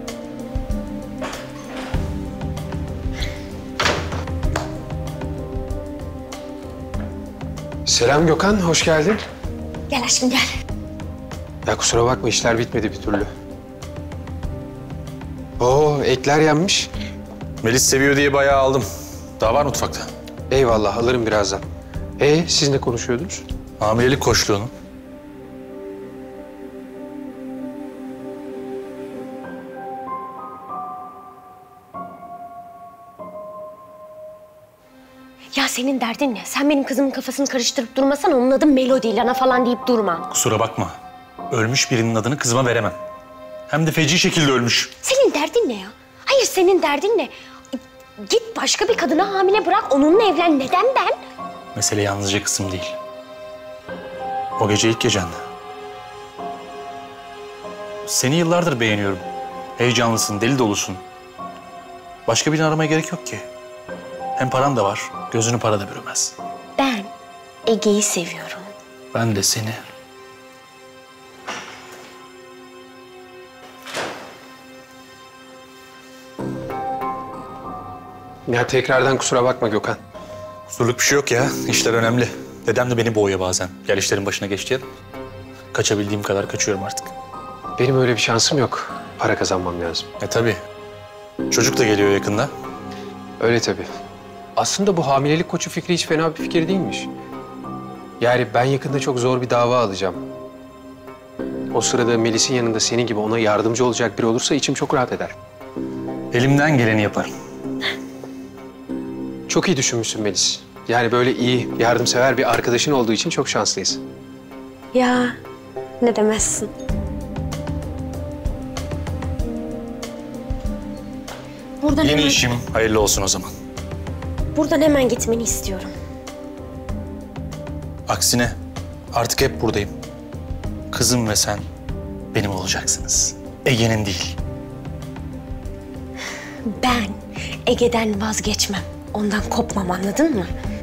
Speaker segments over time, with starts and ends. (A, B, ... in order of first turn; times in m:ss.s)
0:07.9-0:09.2 A
0:09.9-0:10.5 B
0:11.7-0:13.3 A
0:15.6-0:16.9 A
0:17.6-0:18.8 C
0:19.4-0:20.1 C
0:20.5-0:21.6 A
0:22.2-0:23.4 A
0:23.8-0:24.7 C
0:35.6-0:40.2 B
0:40.3-0:41.0 C
0:41.5-0:43.0 C
0:43.7-0:44.9 C
0:45.0-0:51.2 B
0:51.8-0:53.0 C
0:54.6-0:55.4 C
0:58.1-0:59.2 C
0:59.8-1:01.0 C
1:02.3-1:03.4 C
1:04.4-1:06.3 C
1:06.8-1:07.1 B
1:07.7-1:08.7 B
1:09.1-1:09.8 C
1:18.5-1:20.0 A
1:20.7-1:24.8 C
1:25.7-1:27.1 C
1:27.8-1:30.1 A
1:30.2-1:30.6 C
1:31.5-1:32.5 C
1:33.4-1:33.9 A
1:34.6-1:37.1 A
1:38.2-1:40.2 A
1:41.7-1:45.3 A
1:46.3-1:47.3 C
1:49.5-1:54.0 A
1:54.9-1:55.4 B
1:56.0-1:56.7 B
2:01.8-2:02.4 B
2:02.0-2:03.5 C
2:04.5-2:05.9 B
2:08.1-2:08.5 C
2:09.1-2:09.9 C
2:10.9-2:11.6 C
2:12.3-2:14.4 C
2:16.7-2:17.2 B
2:17.7-2:20.5 B